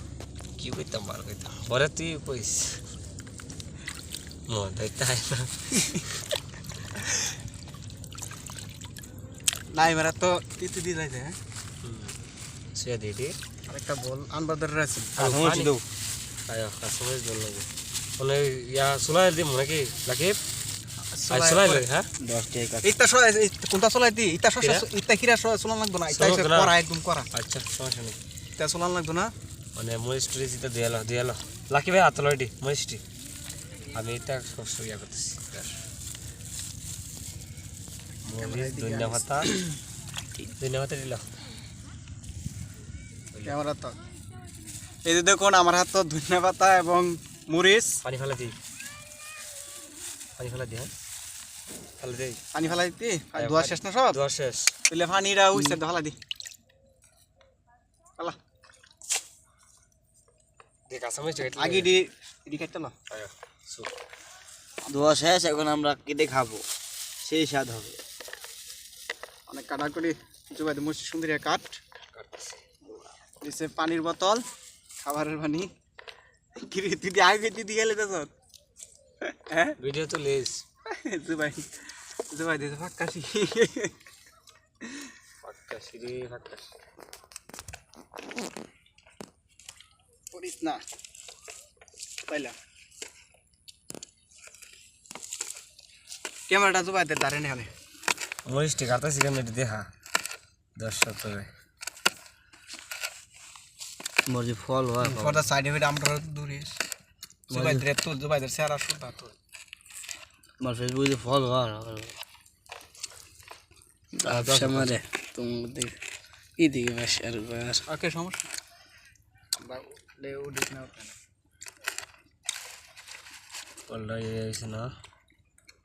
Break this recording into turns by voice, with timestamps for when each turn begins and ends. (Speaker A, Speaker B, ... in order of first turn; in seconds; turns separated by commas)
Speaker A: 0.6-2.8, Speaker A: 4.5-6.1, Speaker B: 9.7-11.4, Speaker A: 11.8-12.2, Speaker A: 12.8-13.3, Speaker B: 13.7-15.3, Speaker A: 15.2-15.8, Speaker C: 15.2-15.8, Speaker A: 16.5-17.7, Speaker A: 18.2-20.4, Speaker B: 21.1-21.9, Speaker A: 21.3-22.1, Speaker C: 22.2-22.9, Speaker B: 22.8-27.3, Speaker A: 24.6-24.9, Speaker A: 26.1-26.7, Speaker A: 27.3-28.2, Speaker B: 28.6-29.3, Speaker A: 29.8-33.0, Speaker A: 33.9-35.7, Speaker A: 38.2-39.5, Speaker B: 38.4-39.8, Speaker A: 40.6-41.2, Speaker A: 43.3-43.6, Speaker B: 43.5-44.0, Speaker B: 45.0-48.0, Speaker A: 48.0-48.6, Speaker A: 50.4-50.9, Speaker A: 52.0-52.4, Speaker B: 52.5-54.2, Speaker A: 53.4-54.7, Speaker B: 54.9-56.2, Speaker A: 60.9-61.9, Speaker B: 61.6-63.0, Speaker A: 63.1-63.9, Speaker B: 64.9-65.1, Speaker C: 64.9-66.7, Speaker C: 67.2-68.0, Speaker B: 69.5-71.8, Speaker A: 72.1-72.6, Speaker B: 73.4-74.4, Speaker B: 75.0-75.7, Speaker B: 76.6-78.3, Speaker B: 79.2-79.8, Speaker A: 79.8-80.6, Speaker B: 80.9-81.8, Speaker B: 82.3-83.9, Speaker B: 84.8-85.1, Speaker A: 85.4-86.7, Speaker B: 90.3-90.8, Speaker B: 92.3-92.5, Speaker B: 96.5-97.7, Speaker A: 98.5-99.9, Speaker A: 100.8-101.5, Speaker C: 104.3-105.5, Speaker B: 105.0-106.8, Speaker B: 107.5-109.3, Speaker C: 107.5-107.9, Speaker C: 110.6-112.1, Speaker C: 114.2-116.0, Speaker A: 114.2-115.0, Speaker C: 116.6-117.8, Speaker B: 117.9-118.5, Speaker B: 119.6-121.2, Speaker A: 123.9-124.9